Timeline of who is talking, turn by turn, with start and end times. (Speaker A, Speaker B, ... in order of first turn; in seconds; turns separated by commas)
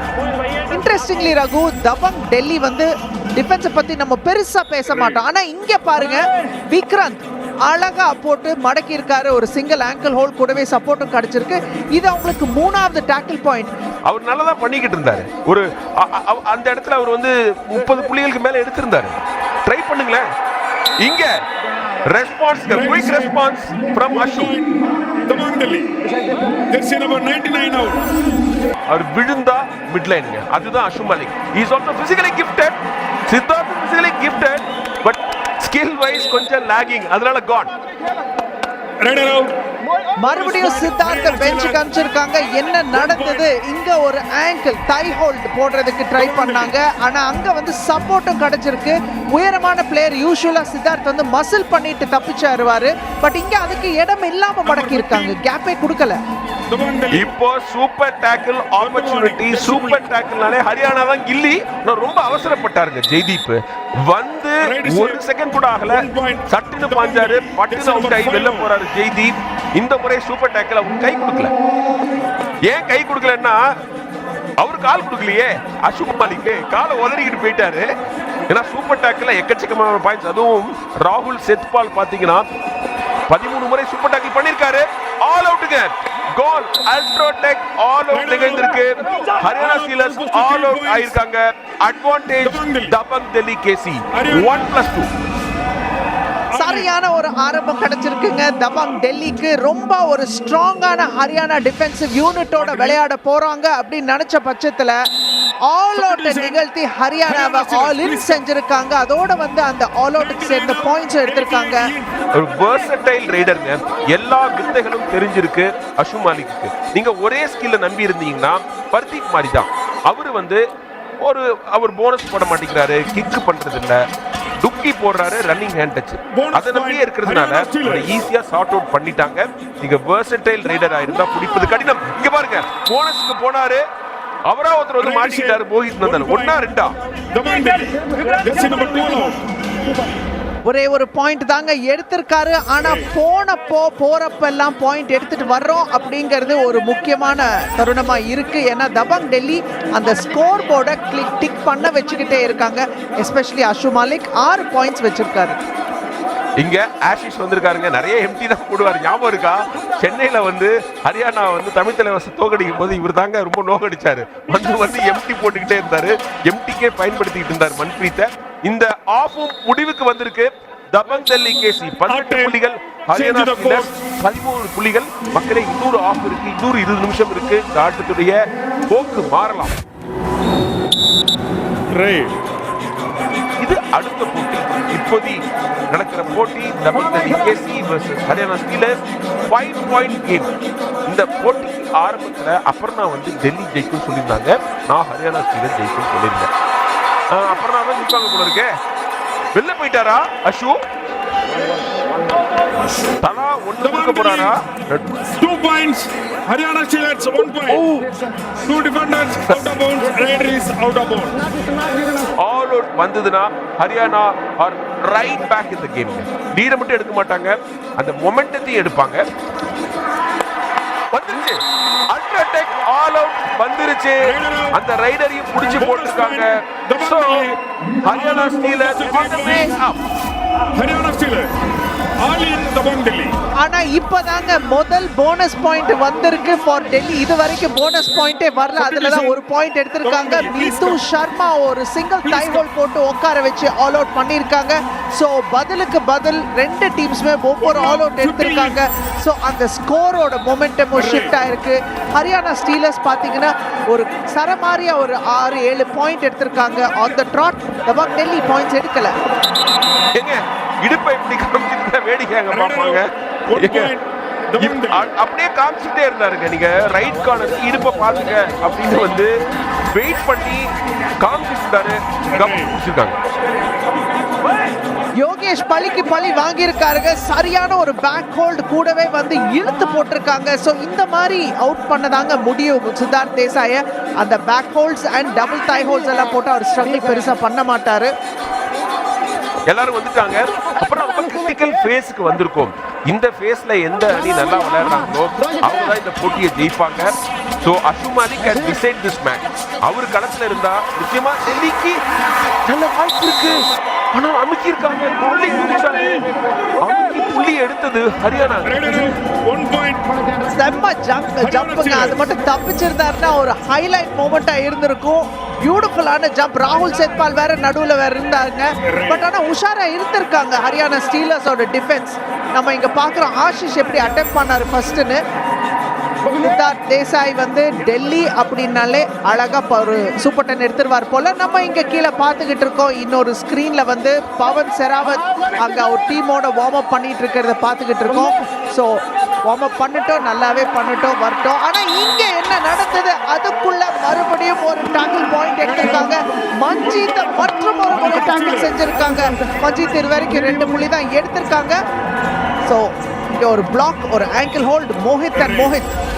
Speaker A: 0.7-13.7, Speaker B: 14.1-20.2, Speaker B: 21.0-21.3, Speaker B: 22.1-24.6, Speaker C: 22.7-23.3, Speaker C: 24.1-24.7, Speaker C: 25.2-25.9, Speaker C: 26.7-28.1, Speaker B: 28.9-37.8, Speaker C: 39.0-39.5, Speaker A: 40.2-56.2, Speaker C: 40.3-41.8, Speaker C: 42.9-43.5, Speaker C: 46.2-46.7, Speaker C: 54.7-55.4, Speaker C: 56.7-57.3, Speaker B: 57.1-71.5, Speaker C: 58.8-60.0, Speaker C: 64.6-65.2, Speaker C: 65.9-68.7, Speaker B: 72.7-73.6, Speaker B: 74.6-77.9, Speaker B: 78.5-82.5, Speaker B: 83.3-95.1, Speaker C: 88.1-91.2, Speaker C: 92.4-92.9, Speaker C: 94.1-94.7, Speaker C: 96.5-96.9, Speaker A: 96.5-105.0, Speaker C: 102.6-103.0, Speaker A: 105.7-111.9, Speaker C: 106.0-106.6, Speaker C: 107.3-108.4, Speaker C: 110.2-112.1, Speaker B: 112.3-120.6, Speaker B: 121.2-124.0, Speaker B: 124.6-133.8, Speaker C: 126.3-128.1, Speaker B: 134.5-136.9, Speaker C: 135.0-136.6, Speaker C: 137.3-139.4, Speaker A: 140.7-155.6, Speaker B: 156.6-179.8, Speaker C: 172.1-172.6, Speaker C: 173.1-173.9, Speaker C: 181.9-182.3, Speaker B: 183.6-185.4, Speaker B: 185.9-190.5, Speaker B: 191.1-196.5, Speaker B: 197.3-198.7, Speaker B: 199.6-200.8, Speaker B: 203.2-205.2, Speaker C: 203.8-204.5, Speaker C: 205.4-207.9, Speaker B: 207.7-208.1, Speaker C: 208.7-211.4, Speaker B: 212.4-219.2, Speaker B: 221.1-227.5, Speaker C: 224.2-224.8, Speaker C: 225.7-227.5, Speaker B: 228.1-230.1, Speaker C: 228.1-229.7, Speaker C: 230.8-231.5, Speaker C: 232.2-233.4, Speaker A: 233.6-259.2, Speaker C: 238.8-239.4, Speaker C: 240.0-241.0, Speaker C: 242.2-242.6, Speaker C: 247.6-248.8, Speaker C: 250.9-251.4, Speaker B: 260.1-263.9, Speaker C: 262.5-265.1, Speaker B: 264.6-269.3, Speaker B: 269.9-273.2, Speaker C: 272.3-272.8, Speaker A: 275.2-288.1, Speaker B: 289.7-302.0, Speaker B: 302.7-306.3, Speaker B: 306.8-309.0, Speaker C: 308.6-310.1, Speaker A: 310.4-325.2, Speaker C: 311.4-312.2, Speaker C: 318.8-319.3, Speaker A: 326.3-351.8, Speaker C: 345.6-346.1, Speaker C: 346.8-348.8, Speaker A: 352.6-355.9, Speaker C: 355.4-355.8